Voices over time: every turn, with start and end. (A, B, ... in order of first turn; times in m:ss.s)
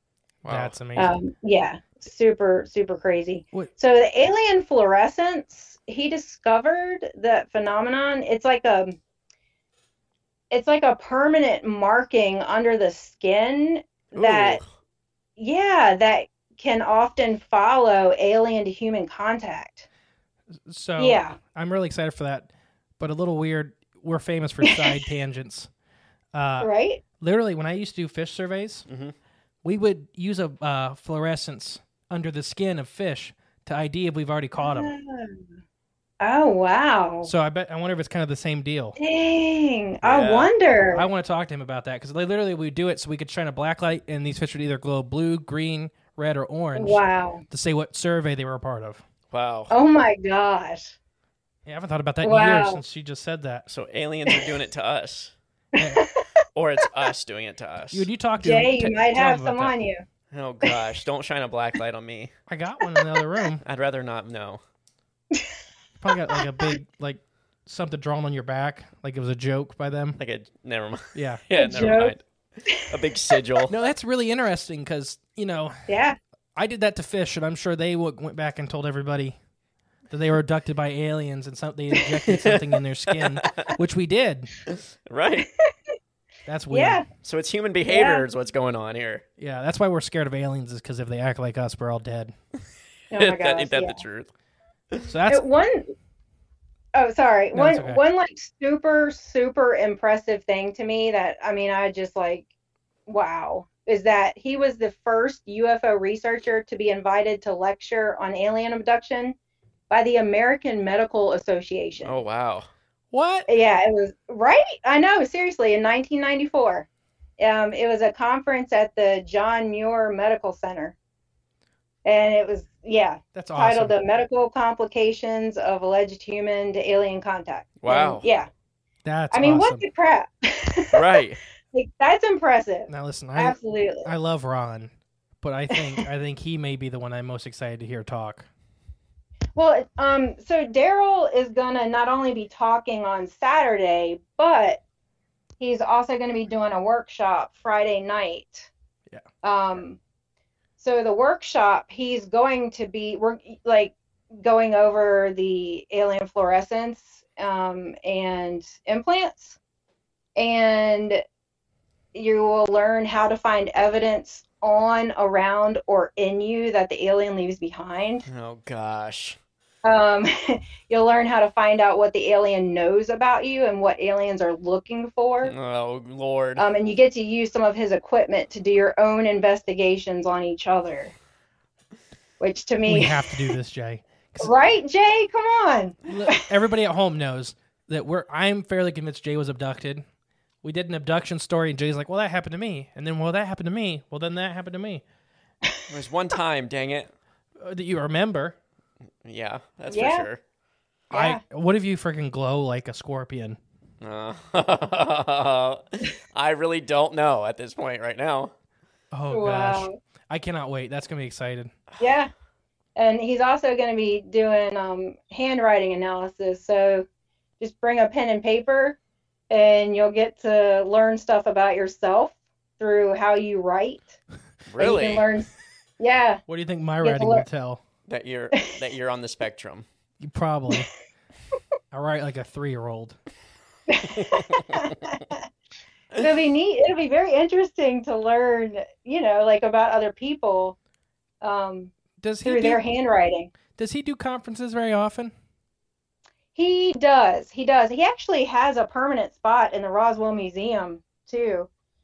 0:00.4-0:00.8 A
0:00.5-0:01.1 B
0:01.0-0:09.0 C
0:10.5-0:14.6 C
0:14.1-0:14.6 A
0:15.4-0:19.9 C
0:20.7-0:25.7 B
0:21.0-0:21.4 C
0:24.6-0:25.0 C
0:26.3-0:28.8 B
0:26.6-0:27.0 C
0:28.9-0:29.1 A
0:29.6-0:34.9 B
0:34.6-0:35.4 C
0:36.2-0:37.3 C
0:37.2-0:39.0 B
0:39.0-0:41.1 C
0:40.0-0:40.5 A
0:40.9-0:49.0 B
0:46.8-0:47.4 C
0:49.3-0:49.7 A
0:49.7-0:50.9 C
0:51.6-0:53.7 B
0:52.2-0:52.8 C
0:53.7-0:55.3 A
0:55.7-0:56.2 C
0:55.8-0:56.0 B
0:56.5-0:58.1 A
0:57.9-0:59.7 B
0:58.4-1:00.0 C
1:00.3-1:02.3 A
1:02.5-1:03.6 B
1:03.6-1:04.6 A
1:06.0-1:10.2 B
1:06.3-1:06.7 C
1:10.2-1:13.7 A
1:11.1-1:11.4 B
1:11.6-1:12.2 C
1:12.7-1:13.0 C
1:13.7-1:15.9 B
1:15.9-1:16.2 C
1:16.6-1:19.4 B
1:20.1-1:24.5 B
1:22.2-1:23.7 A
1:24.7-1:25.5 A
1:25.4-1:25.7 C
1:26.5-1:27.0 B
1:26.7-1:27.0 C
1:27.2-1:29.2 A
1:27.8-1:28.2 C
1:29.4-1:32.3 B
1:33.1-1:34.0 C
1:33.1-1:34.3 A
1:35.1-1:35.4 B
1:35.3-1:35.9 C
1:36.9-1:42.5 C
1:37.5-1:38.0 B
1:43.1-1:49.3 C
1:49.9-1:52.2 C
1:52.0-1:52.7 A
1:53.1-1:53.5 B
1:53.5-1:56.9 C
1:57.4-2:00.9 C
2:02.0-2:08.5 C
2:03.3-2:03.9 B
2:07.8-2:08.2 A
2:09.0-2:09.8 B
2:09.3-2:11.2 C
2:10.9-2:11.4 A
2:11.7-2:14.1 C
2:12.9-2:14.9 B
2:15.4-2:18.5 B
2:15.7-2:16.0 C
2:19.5-2:24.8 C
2:25.6-2:28.7 C
2:29.4-2:30.0 C
2:30.8-2:39.6 C
2:40.4-2:41.2 C
2:42.1-2:48.2 C
2:48.3-2:49.4 A
2:49.8-2:55.5 C
2:55.4-2:56.6 A
2:56.6-3:01.1 C
3:02.4-3:03.5 C
3:02.9-3:04.5 B
3:04.4-3:06.4 C
3:06.1-3:10.0 B
3:10.6-3:15.0 B
3:15.9-3:17.1 A
3:17.6-3:18.6 B
3:19.2-3:20.4 A
3:19.9-3:20.3 C
3:21.1-3:21.4 C
3:21.1-3:23.6 B
3:24.0-3:28.5 A
3:29.1-3:31.7 B
3:29.3-3:30.0 C
3:32.0-3:32.3 C
3:33.0-3:37.0 C
3:37.6-3:39.0 C
3:39.5-3:44.2 C
3:44.7-3:45.2 A
3:44.8-3:46.4 C
3:46.5-3:47.8 B
3:47.0-3:47.4 C
3:48.1-3:49.8 A
3:50.2-3:50.9 B
3:51.9-3:53.2 B
3:53.9-3:55.4 C
3:54.1-3:54.8 A
3:56.2-4:00.8 C
4:01.4-4:01.9 C
4:02.2-4:02.8 B
4:02.4-4:03.5 C
4:03.7-4:05.3 B
4:06.5-4:11.7 C